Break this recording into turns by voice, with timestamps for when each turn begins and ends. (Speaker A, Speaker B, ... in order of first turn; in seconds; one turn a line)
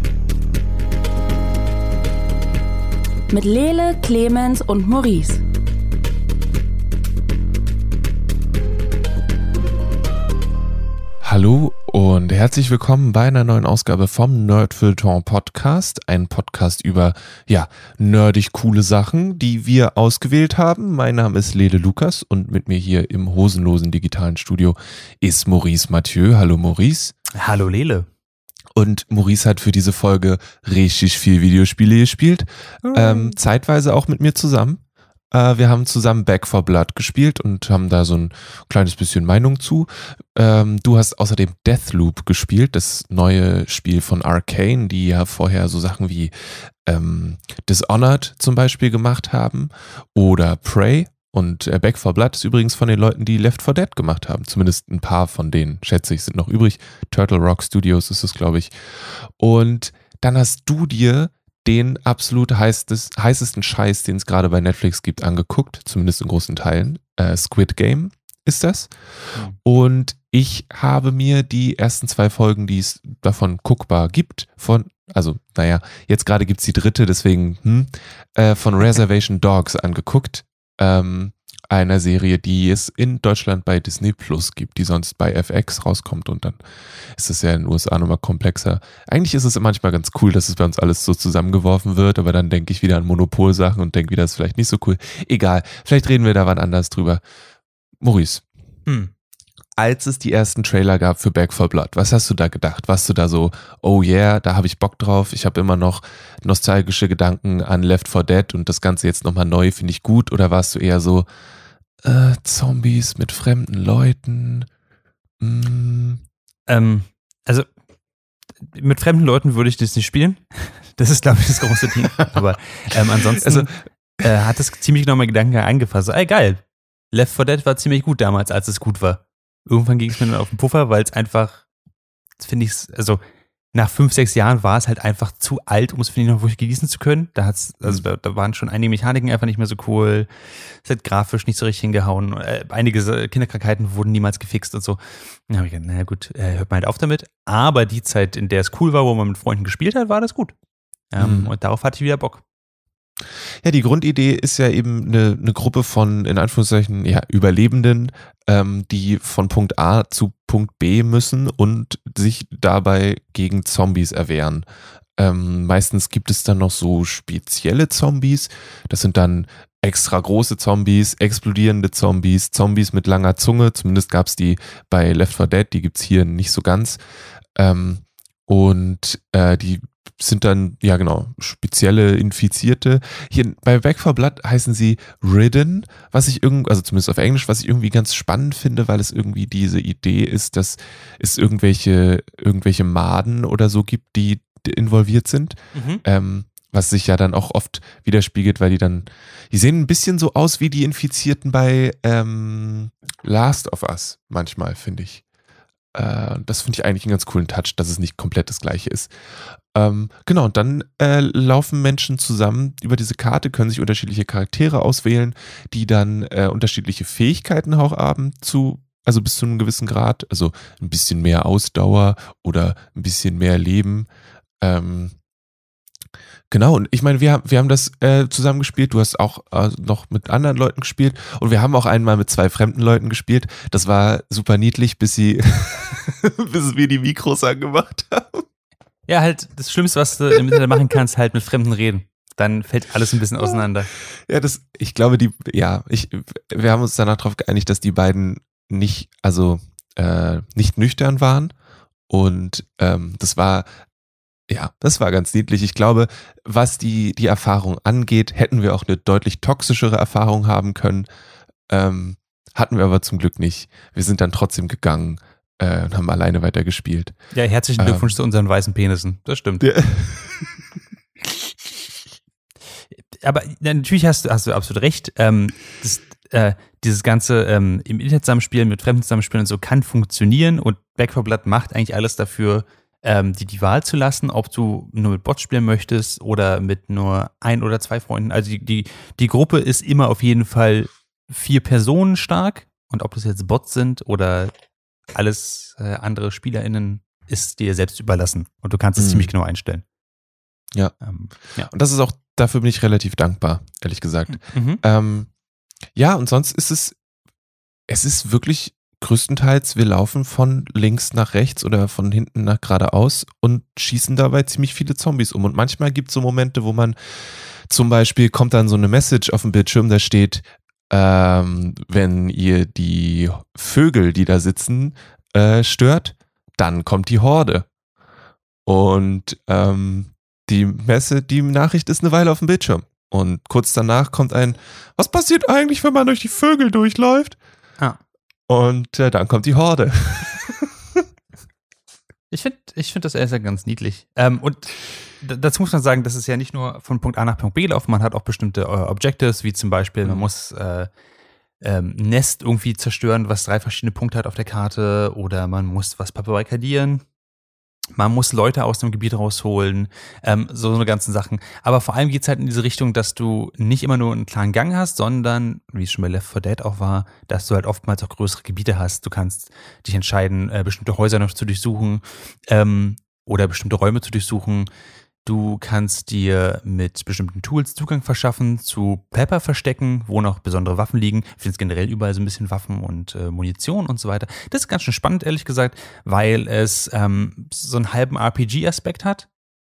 Speaker A: 3.3-5.4
Speaker B: 11.2-27.1
Speaker C: 27.3-28.1
Speaker B: 28.8-86.6
Speaker C: 32.8-33.4
Speaker B: 87.1-97.2
Speaker B: 98.0-98.5
Speaker C: 98.9-99.1
Speaker B: 99.8-111.3
Speaker B: 112.0-114.7
Speaker B: 115.4-116.2
Speaker C: 116.7-117.7
Speaker C: 118.7-131.7
Speaker B: 123.4-123.7
Speaker C: 132.4-133.2
Speaker C: 133.7-150.6
Speaker C: 151.1-152.4
Speaker B: 151.2-151.5
Speaker B: 153.6-164.7
Speaker B: 165.2-177.0
Speaker B: 177.6-205.2
Speaker C: 195.7-196.0
Speaker B: 205.9-209.1
Speaker B: 209.7-224.1
Speaker B: 224.6-225.2
Speaker B: 226.5-238.5
Speaker C: 239.1-243.9
Speaker B: 244.1-251.5
Speaker B: 252.1-253.7
Speaker B: 254.5-261.1
Speaker B: 261.7-267.2
Speaker C: 267.3-269.7
Speaker B: 267.8-268.1
Speaker B: 269.6-270.5
Speaker C: 273.2-294.5
Speaker C: 295.1-299.8
Speaker B: 299.0-299.3
Speaker C: 301.0-301.7
Speaker B: 301.7-305.3
Speaker C: 304.3-304.8
Speaker B: 305.9-307.0
Speaker B: 307.9-317.0
Speaker B: 317.7-327.7
Speaker B: 328.7-337.4
Speaker B: 338.5-341.0
Speaker C: 342.3-350.9
Speaker C: 351.6-357.0
Speaker C: 357.9-374.7
Speaker C: 375.2-389.3